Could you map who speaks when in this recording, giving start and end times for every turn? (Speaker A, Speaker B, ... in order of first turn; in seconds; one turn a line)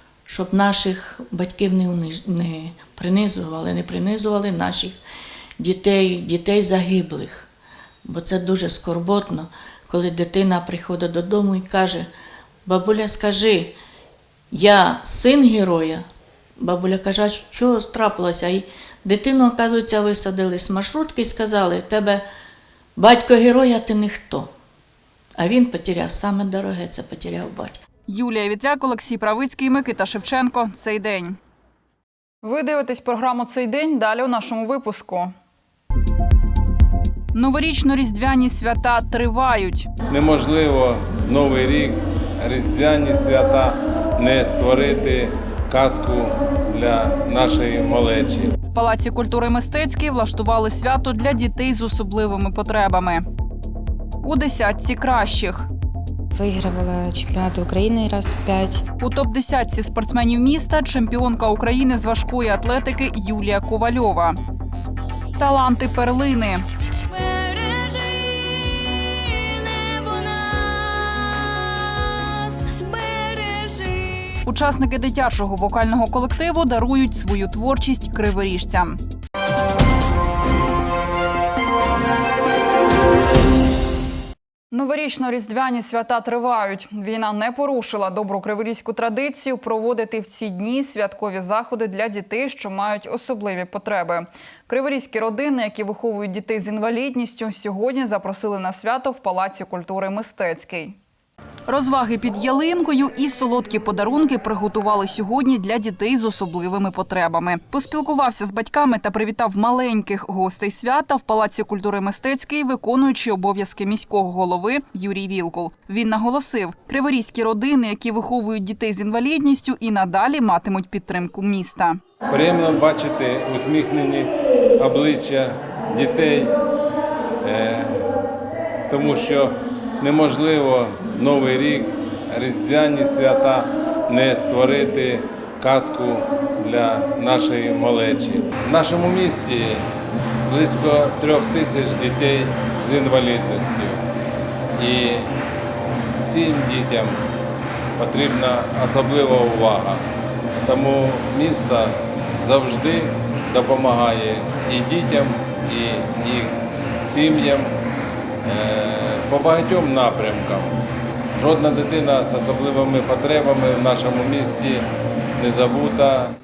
Speaker A: 0.3-5.0
Speaker A: 5.6-7.5
Speaker A: 8.1-12.1
Speaker A: 12.7-13.7
Speaker A: 14.5-16.1
Speaker A: 16.6-22.2
Speaker A: 23.0-24.5
Speaker A: 25.4-27.8
Speaker B: 28.1-31.4
Speaker B: 32.4-35.3
Speaker B: 37.3-39.9
Speaker C: 40.1-48.5
Speaker B: 48.7-53.2
Speaker B: 54.2-55.7
Speaker D: 56.4-58.8
Speaker B: 59.0-64.4
Speaker B: 65.4-66.7
Speaker B: 74.5-79.0
Speaker B: 84.7-101.0
Speaker B: 101.7-122.0
Speaker C: 122.3-126.6
Speaker C: 127.4-128.1
Speaker C: 128.9-139.8
Speaker C: 140.5-144.0
Speaker C: 144.8-145.3
Speaker C: 146.3-147.2
Speaker C: 148.0-150.0
Speaker C: 150.6-157.7
Speaker C: 158.4-160.7
Speaker C: 161.3-164.8
Speaker C: 165.4-166.3